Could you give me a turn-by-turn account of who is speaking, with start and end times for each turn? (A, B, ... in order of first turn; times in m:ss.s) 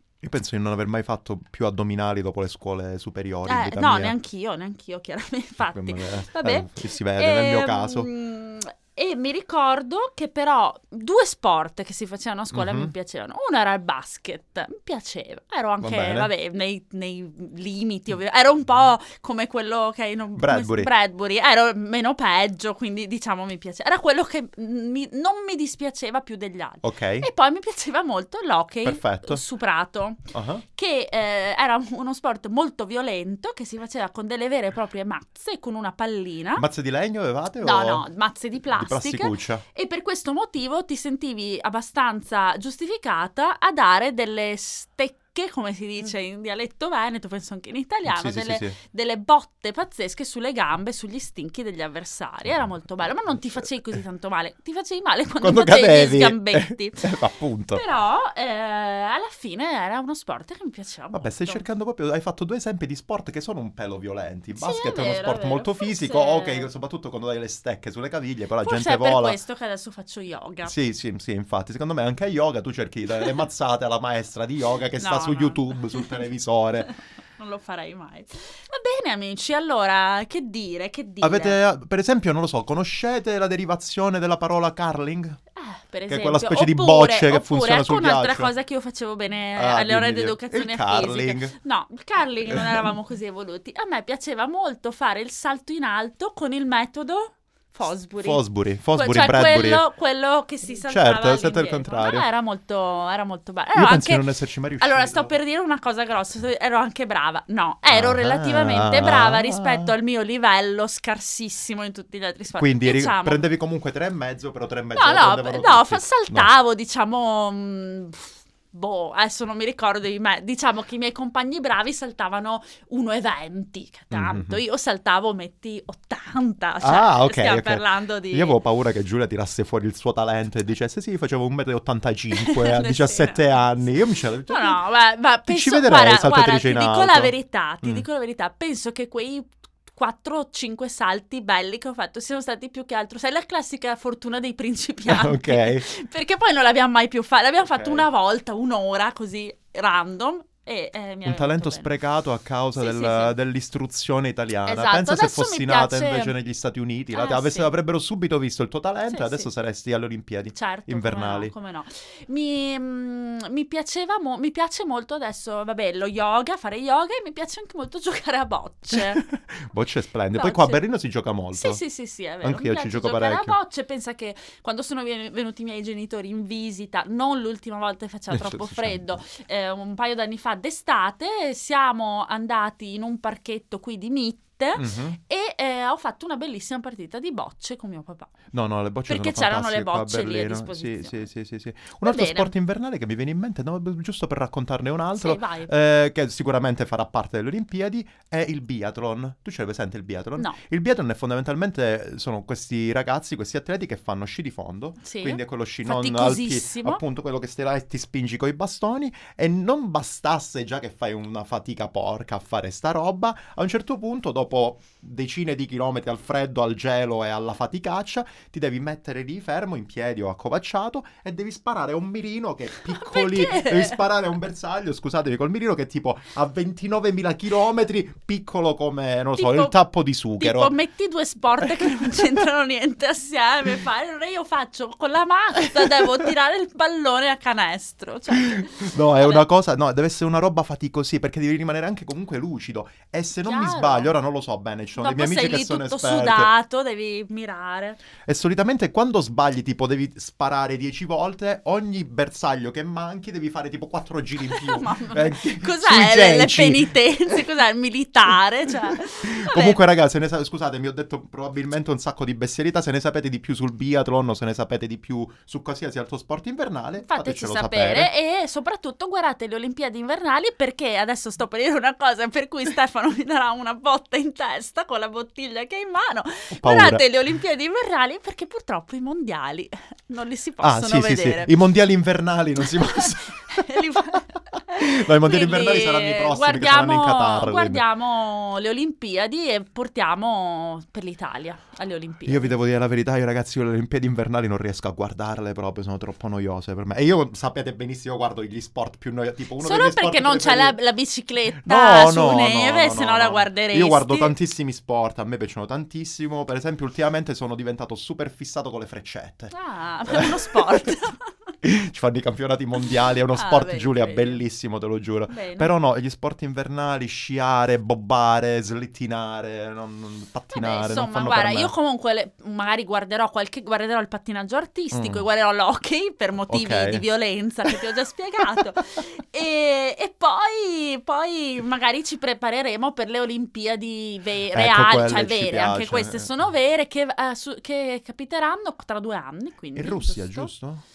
0:00.2-0:04.2 A
0:03.4-0:36.6 B
0:05.6-0:08.1 A
0:12.5-0:12.9 A
0:15.8-0:16.3 A
0:20.4-0:20.9 A
0:26.8-0:27.3 A
0:28.8-0:29.4 A
0:30.3-0:30.6 A
0:36.6-0:38.0 A
0:37.6-0:57.1 B
0:38.7-0:39.6 A
0:48.0-0:48.8 A
0:55.4-0:57.8 A
0:57.7-1:01.6 B
1:01.1-1:09.4 A
1:04.6-1:06.7 B
1:08.6-1:10.7 B
1:10.6-1:16.9 A
1:15.0-1:16.2 B
1:16.8-1:21.6 B
1:21.2-1:25.4 A
1:25.6-1:38.4 B
1:26.1-1:28.5 A
1:29.6-1:31.5 A
1:32.5-1:32.8 A
1:38.2-1:39.8 A
1:38.9-1:44.2 B
1:40.9-1:42.2 A
1:43.7-1:45.3 A
1:44.8-1:53.4 B
1:47.9-1:49.9 A
1:52.5-1:56.5 A
1:54.9-2:08.6 B
2:04.1-2:04.6 A
2:06.8-2:14.8 A
2:12.3-2:13.7 B
2:14.5-2:31.9 B
2:15.5-2:18.0 A
2:25.0-2:25.8 A
2:27.6-2:28.1 A
2:31.2-2:41.5 A
2:32.8-2:33.3 B
2:34.6-2:36.3 B
2:37.1-2:37.7 B
2:39.1-2:39.5 B
2:40.5-2:49.2 B
2:48.9-2:51.8 A
2:50.3-2:50.8 B
2:51.5-3:08.3 B
2:52.4-2:53.6 A
2:58.3-2:59.2 A
3:04.8-3:05.2 A
3:08.5-3:50.7 A
3:09.1-3:11.3 B
3:12.0-3:12.5 B
3:15.2-3:15.7 B
3:25.0-3:27.0 B
3:42.9-3:44.0 B
3:49.4-3:49.7 B
3:50.4-3:59.4 B
3:51.6-3:52.2 A
3:55.8-3:56.1 A
3:58.3-4:06.5 A
4:03.4-4:04.1 B
4:05.0-4:08.0 B
4:08.2-4:17.4 A
4:14.4-4:19.8 B
4:19.2-4:28.1 A
4:27.1-4:41.5 B
4:36.5-4:37.0 A
4:40.6-4:44.2 A
4:42.6-4:52.5 B
4:44.7-4:47.8 A
4:52.2-5:00.8 A
4:59.6-5:04.4 B
5:01.6-5:09.5 A
5:09.5-5:11.3 B
5:10.1-5:10.9 A
5:11.6-5:21.7 A
5:13.3-5:14.4 B
5:15.3-5:15.7 B
5:20.5-5:40.5 B
5:24.9-5:25.3 A
5:26.5-5:27.0 A
5:34.5-5:36.3 A
5:39.8-5:40.8 A